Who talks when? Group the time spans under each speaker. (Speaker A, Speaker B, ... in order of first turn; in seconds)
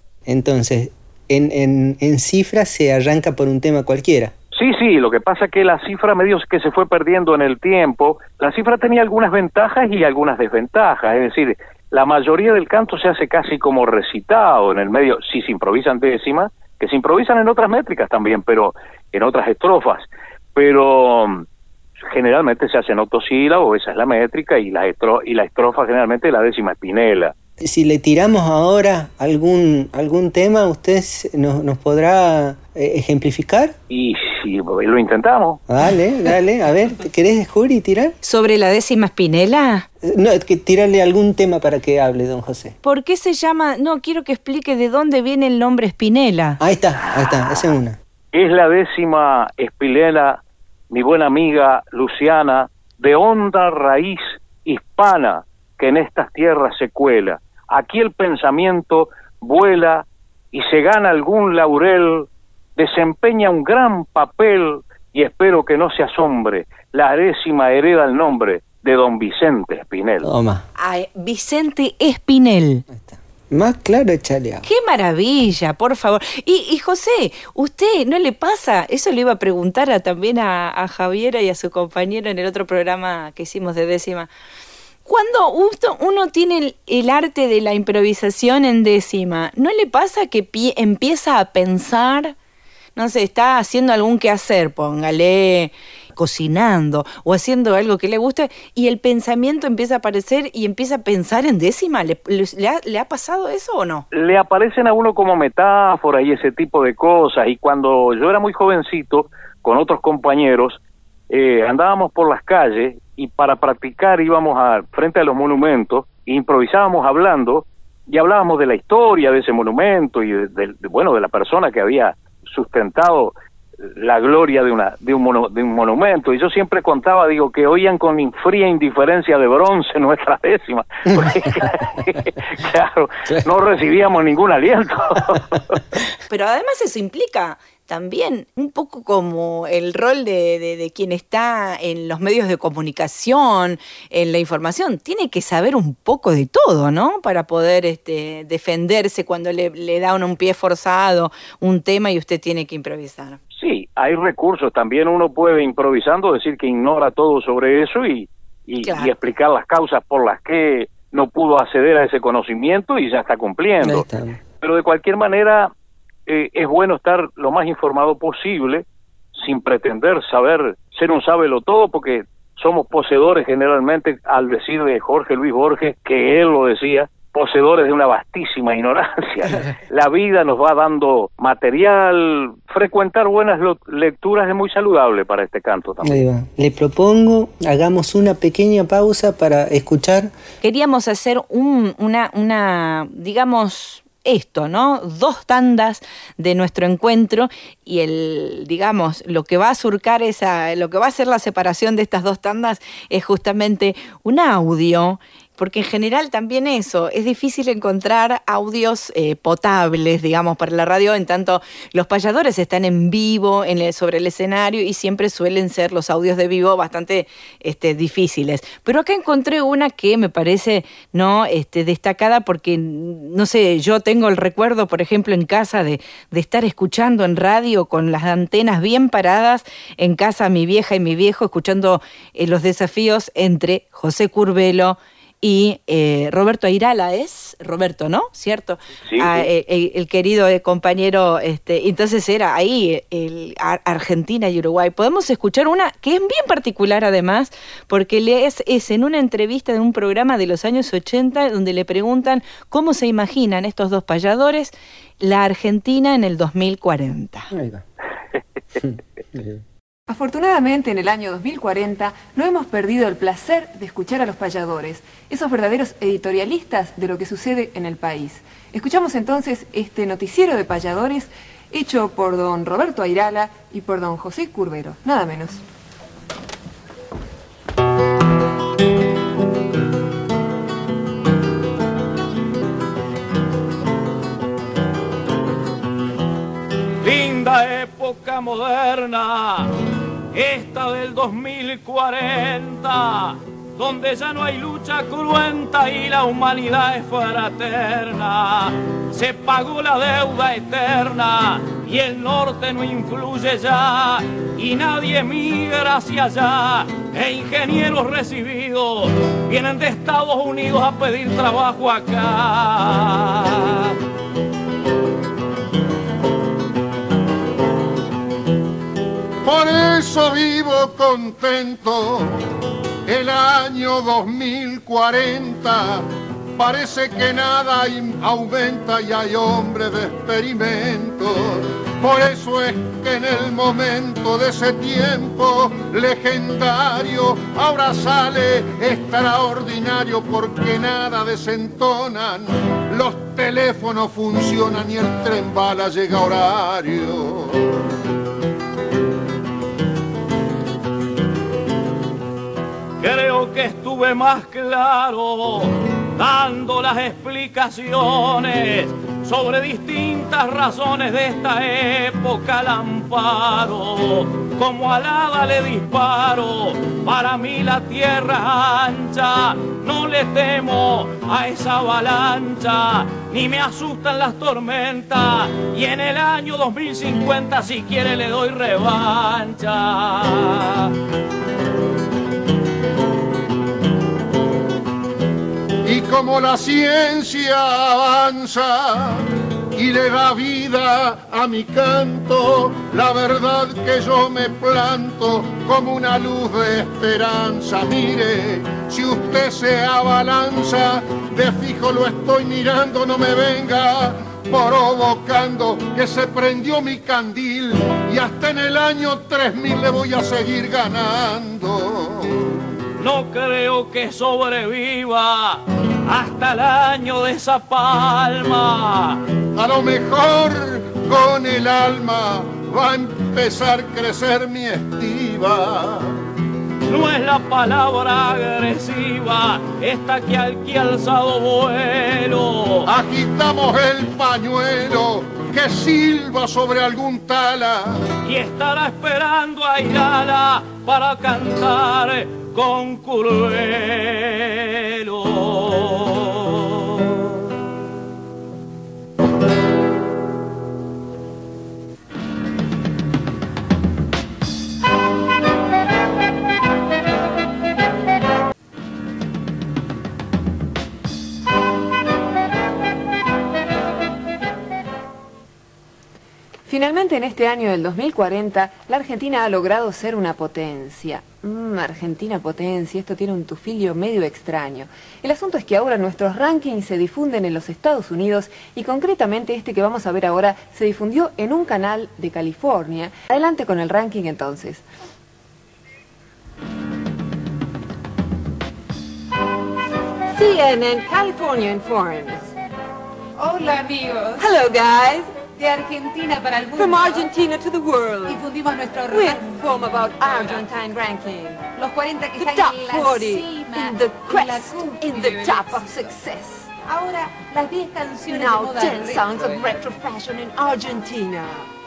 Speaker A: 0.3-4.3, 27.6-33.8, 35.7-38.2, 40.0-42.8, 46.6-48.0, 70.2-70.7, 72.9-74.7, 131.1-131.4, 163.8-164.4, 186.0-190.3, 257.5-257.8, 258.8-259.6
Speaker B: 4.5-21.4, 22.1-27.3, 33.9-35.6, 48.3-70.3, 104.1-110.8, 111.3-123.3, 124.0-135.8, 153.6-164.1, 164.6-165.7, 166.3-186.2, 239.1-239.5
Speaker C: 38.2-39.9, 42.8-46.6, 70.8-72.8, 74.7-84.3, 85.1-92.3, 93.0-104.0, 136.3-153.4, 158.8-159.3, 190.6-257.5
Speaker D: 260.1-275.6, 466.7-484.9, 490.3-492.5, 494.4-495.4, 496.8-498.4, 499.1-501.7, 502.4-506.7, 508.3-511.7
Speaker E: 287.0-289.7, 290.3-314.0, 353.0-380.9, 413.0-419.2, 426.9-432.9, 438.2-447.3
Speaker F: 319.4-322.3, 323.1-326.0, 326.6-347.8, 385.9-412.6, 419.6-426.1, 432.9-438.0
Speaker G: 493.4-494.5, 495.5-497.3, 498.2-500.7, 501.8-506.1, 506.8-509.7